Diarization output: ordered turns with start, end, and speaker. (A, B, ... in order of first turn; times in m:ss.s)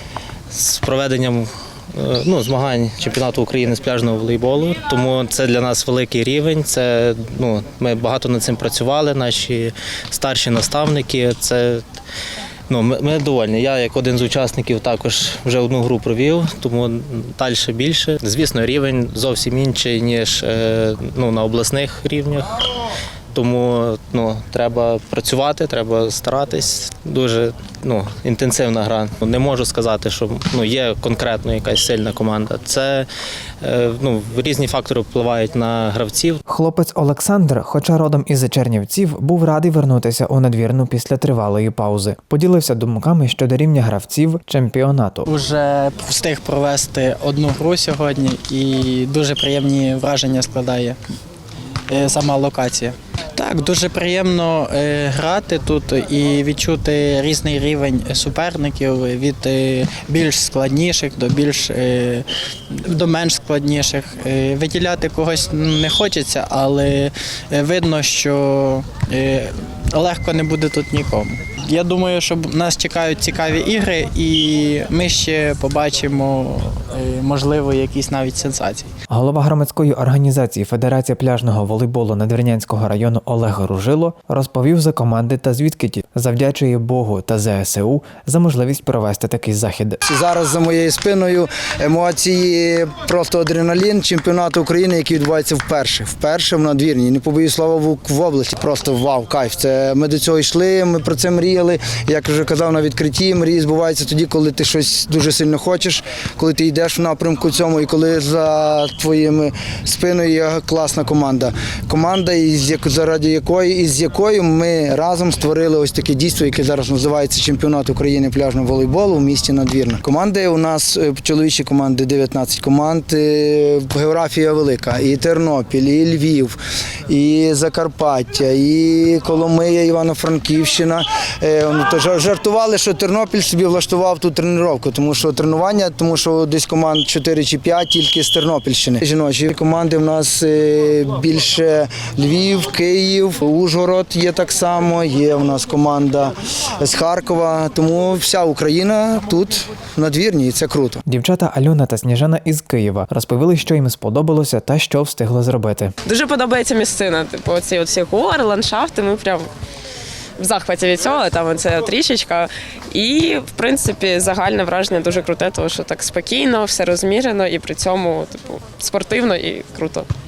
0:00.5-0:11.8 A
0:12.7-0:22.6 A
0:23.3-0:33.1 A
0:33.6-0:36.4 A
0:36.5-0:45.3 B
0:45.3-0:51.0 C
0:51.9-1:02.2 C
1:02.8-1:18.9 C
1:19.1-1:30.0 B
1:30.0-2:06.5 D
2:07.1-2:31.0 D
2:31.1-2:35.9 B
2:36.1-2:39.5 E
2:40.4-2:50.0 E